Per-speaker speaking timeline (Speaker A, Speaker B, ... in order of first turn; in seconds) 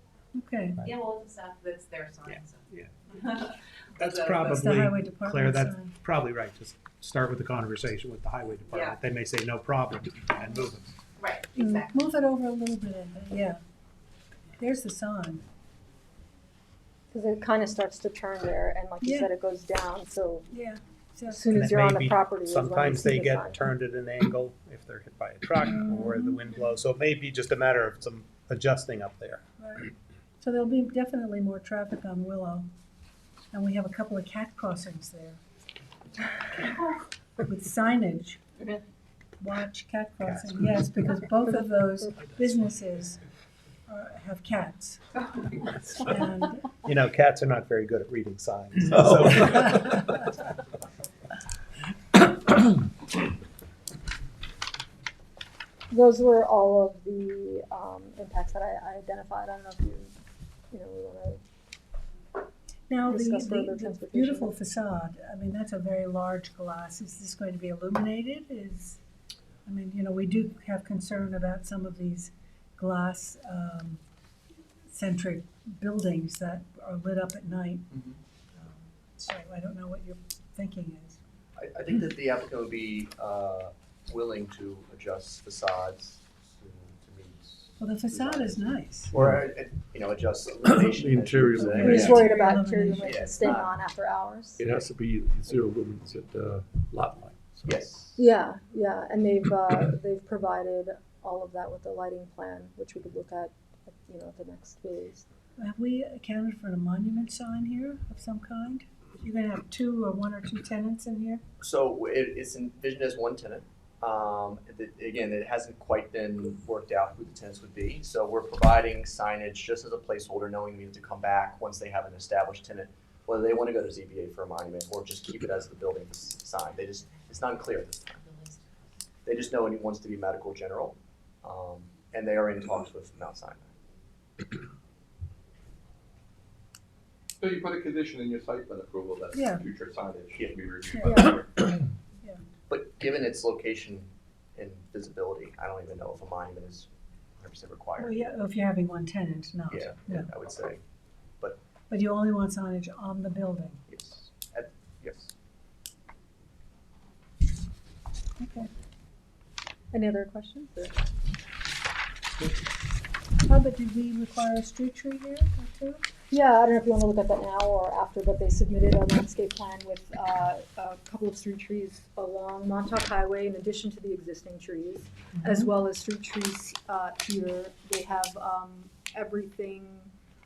Speaker A: 0.3-0.8, 4.5-6.0, 11.5-13.6, 14.6-15.4, 19.0-19.3, 20.5-21.6, 29.6-32.7, 33.5-35.4, 37.4-38.4, 39.4-43.2, 43.9-45.0, 46.0-46.7, 62.9-69.0, 69.7-74.0, 74.9-77.9, 78.6-81.2, 87.8-89.1, 91.5-93.1, 105.6-111.4, 139.3-139.7, 140.9-141.2, 148.0-150.3, 151.9-153.8, 158.4-158.7, 163.5-166.0, 175.4-175.7
Speaker B: 0.8-4.6, 8.7-9.0, 11.2-12.2, 36.6-36.9, 128.2-128.6
Speaker C: 2.3-2.9, 4.0-10.9, 21.5-29.4, 40.2-40.6, 46.9-50.3
Speaker D: 17.1-20.5, 21.3-23.6, 55.9-60.1, 60.7-61.4, 63.0-64.5, 91.7-94.7, 98.2-105.3, 141.1-141.4, 159.9-161.0, 166.3-180.1
Speaker E: 81.6-92.2, 93.0-93.7, 97.7-98.2, 111.6-128.2, 129.2-133.7, 142.7-146.9, 147.4-148.3, 149.7-150.8, 153.9-155.3
Speaker F: 91.0-92.2, 94.6-97.7
Speaker G: 137.4-141.5